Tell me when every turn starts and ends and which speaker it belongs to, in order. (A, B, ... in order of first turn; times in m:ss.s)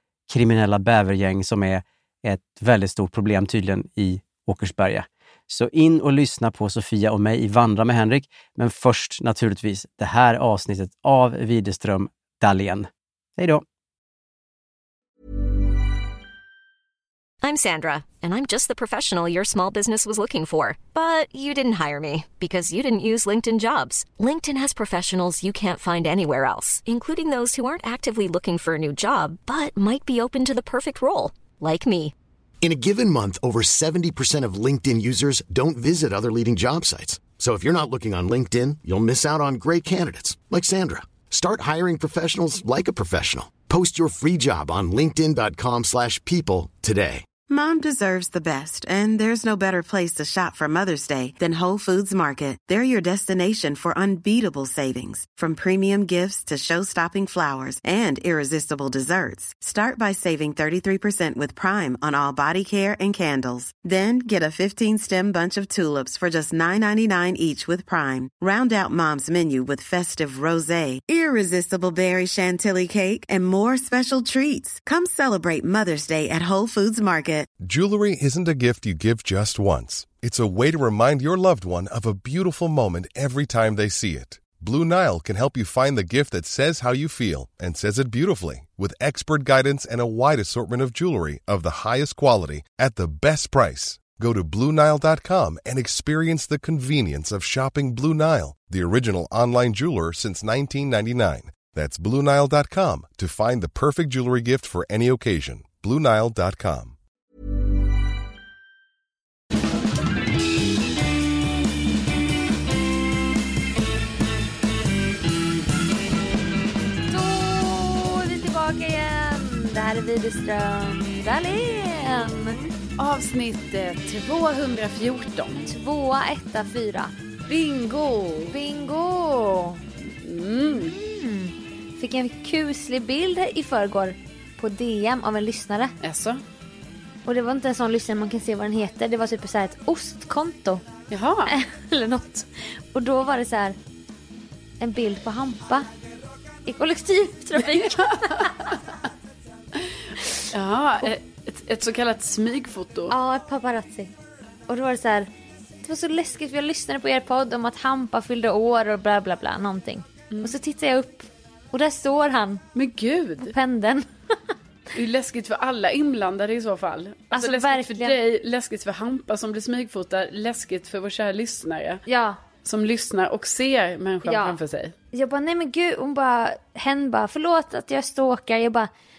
0:00.3-0:13.6 A
0:17.4-0:32.1 B
0:32.6-0:47.4 C
0:47.4-1:17.5 D
1:17.6-1:47.0 E
1:57.1-2:02.6 F
2:03.0-2:05.7 G
2:05.6-2:07.1 F
2:07.5-2:08.6 G
2:08.5-2:09.8 F
2:10.2-2:11.0 G
2:10.9-2:16.0 F
2:16.0-2:16.4 G
2:17.3-2:20.8 F
2:21.1-2:21.5 G
2:21.5-2:23.8 F
2:24.8-2:25.9 F
2:26.7-2:28.6 F
2:30.5-2:33.1 G
2:33.1-2:34.1 F
2:34.7-2:35.3 F
2:35.8-2:42.6 F
2:42.8-2:43.5 G
2:43.4-2:44.4 F
2:45.0-2:52.0 G
2:47.3-2:48.2 F
2:52.1-2:52.4 F
2:52.6-2:55.0 G
2:54.2-2:54.6 F
2:55.1-2:58.9 F